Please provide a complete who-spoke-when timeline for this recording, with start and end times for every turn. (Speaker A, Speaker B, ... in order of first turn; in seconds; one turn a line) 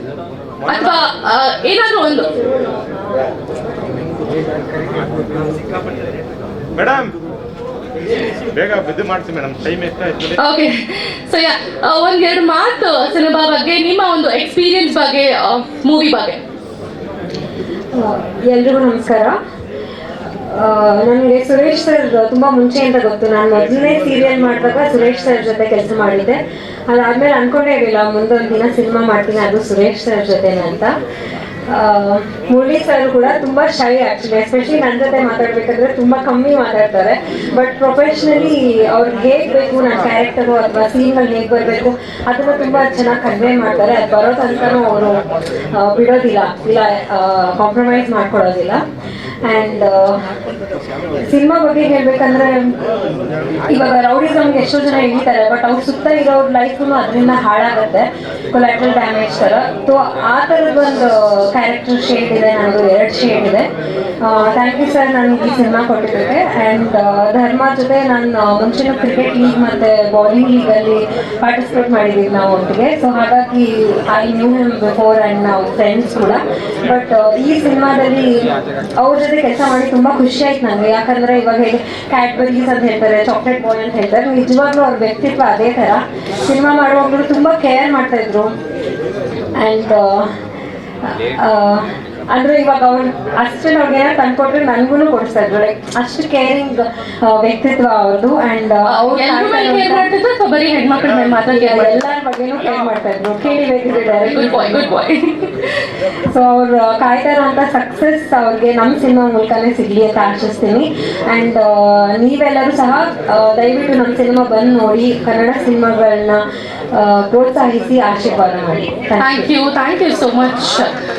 Speaker A: 0.7-2.3
Speaker B: 6.8-7.1
Speaker B: 8.5-10.4
Speaker A: 10.4-16.4
Speaker C: 17.9-19.4
Speaker C: 20.5-30.9
Speaker C: 31.7-48.8
Speaker C: 49.5-50.3
Speaker C: 51.2-52.8
Speaker C: 53.7-63.7
Speaker C: 64.2-88.6
Speaker C: 89.6-90.3
Speaker C: 91.0-100.1
Speaker A: 98.9-102.0
Speaker C: 101.4-104.9
Speaker A: 104.3-105.9
Speaker C: 106.3-116.4
Speaker C: 116.9-119.5
Speaker A: 119.2-120.9